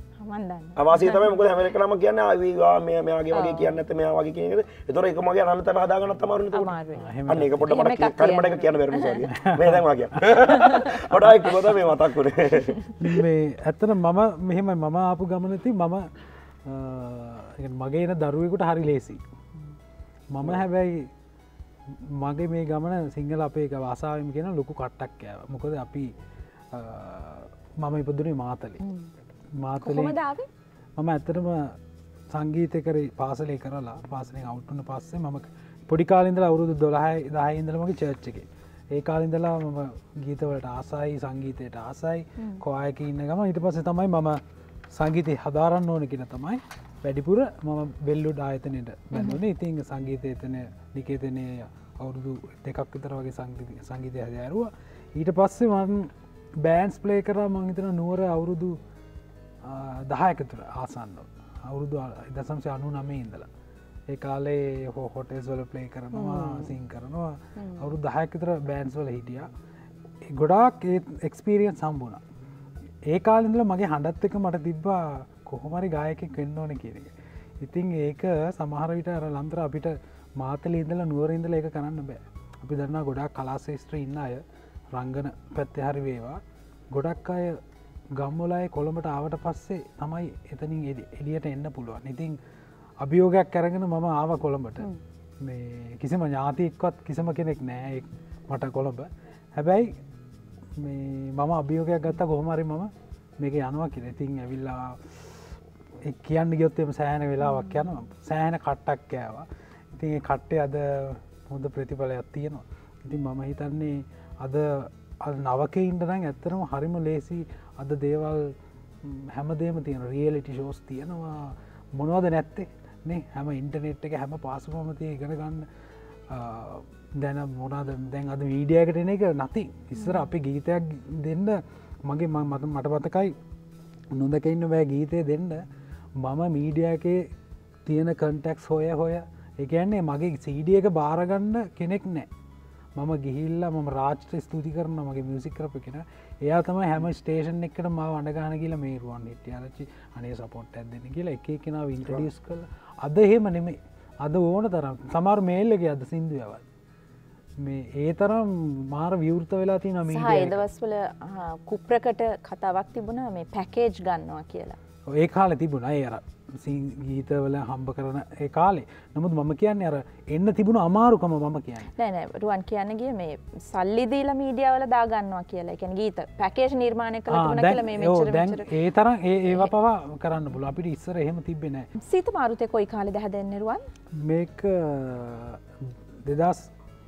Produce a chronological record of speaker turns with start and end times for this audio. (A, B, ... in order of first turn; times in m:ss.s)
0:00.2-0:01.4 A
0:00.8-0:13.2 B
0:03.3-0:03.8 A
0:06.5-0:07.1 A
0:07.0-0:07.7 C
0:07.6-0:09.2 A
0:09.3-0:10.4 C
0:10.5-0:11.1 A
0:13.0-0:16.1 C
0:16.6-0:19.2 C
0:20.3-0:21.1 C
0:22.2-0:26.1 C
0:26.7-0:28.8 C
0:28.8-0:29.1 A
0:29.6-0:30.2 C
0:29.8-0:30.5 A
0:31.0-0:31.8 C
0:32.3-0:56.1 C
0:49.1-0:49.4 A
0:56.6-0:58.8 C
0:59.6-1:03.5 C
1:04.1-1:09.5 C
1:06.1-1:06.7 A
1:07.6-1:07.9 A
1:10.3-1:12.2 C
1:13.1-1:26.4 C
1:26.9-1:27.6 C
1:28.2-1:32.4 C
1:33.0-1:34.9 C
1:35.4-1:39.9 C
1:40.8-1:45.2 C
1:46.0-2:05.7 C
1:47.5-1:47.7 A
2:06.3-2:13.3 C
2:10.0-2:10.3 A
2:14.1-2:15.6 C
2:16.2-2:17.3 C
2:17.8-2:22.3 C
2:23.0-2:36.6 C
2:37.6-2:40.6 C
2:40.1-2:44.8 A
2:45.1-2:51.9 C
2:52.0-2:58.7 A
2:57.3-3:01.9 C
3:02.0-3:03.8 A
3:04.2-3:05.6 C
3:06.2-3:06.7 C